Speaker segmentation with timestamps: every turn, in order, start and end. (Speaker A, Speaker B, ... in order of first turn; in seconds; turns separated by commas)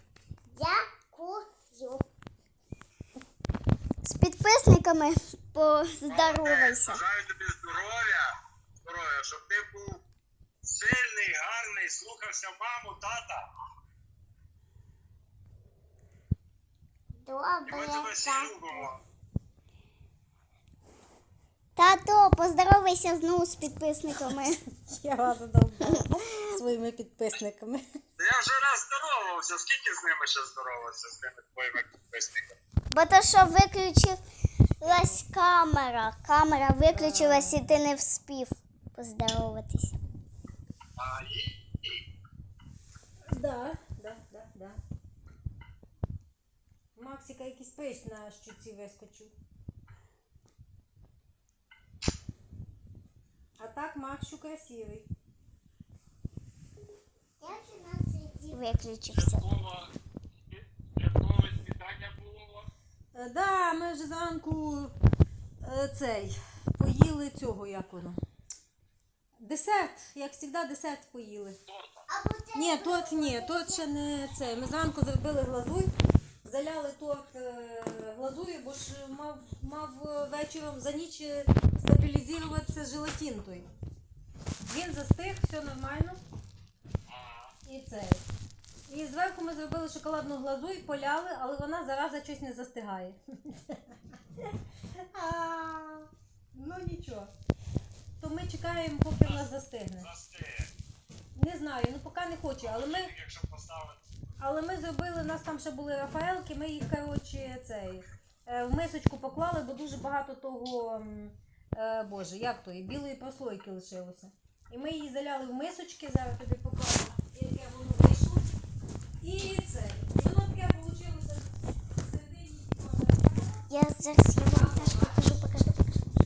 Speaker A: 0.5-2.0, Speaker A: 4.0-7.0, Speaker B: 6.1-10.0, Speaker B: 10.6-13.4, Speaker A: 17.2-18.6, Speaker B: 17.7-19.0, Speaker A: 21.8-24.6, Speaker C: 24.9-27.8, Speaker B: 28.2-32.5, Speaker A: 32.9-34.2, Speaker A: 34.8-40.0, Speaker C: 34.8-35.2, Speaker C: 36.9-37.7, Speaker B: 41.0-42.0, Speaker C: 43.3-44.8, Speaker C: 46.9-49.3, Speaker C: 53.6-55.1, Speaker A: 57.4-59.5, Speaker B: 59.1-59.9, Speaker B: 60.5-62.7, Speaker C: 63.1-64.9, Speaker C: 65.6-68.2, Speaker C: 69.4-71.6, Speaker B: 71.7-72.0, Speaker A: 72.1-73.9, Speaker C: 72.5-75.9, Speaker C: 76.4-83.7, Speaker C: 84.7-86.2, Speaker B: 87.1-87.5, Speaker C: 87.6-88.2, Speaker C: 88.9-97.3, Speaker C: 98.2-100.1, Speaker B: 100.0-100.7, Speaker C: 101.3-103.1, Speaker B: 102.6-104.0, Speaker C: 104.4-118.5, Speaker C: 119.2-123.7, Speaker A: 123.7-126.1, Speaker C: 124.5-125.3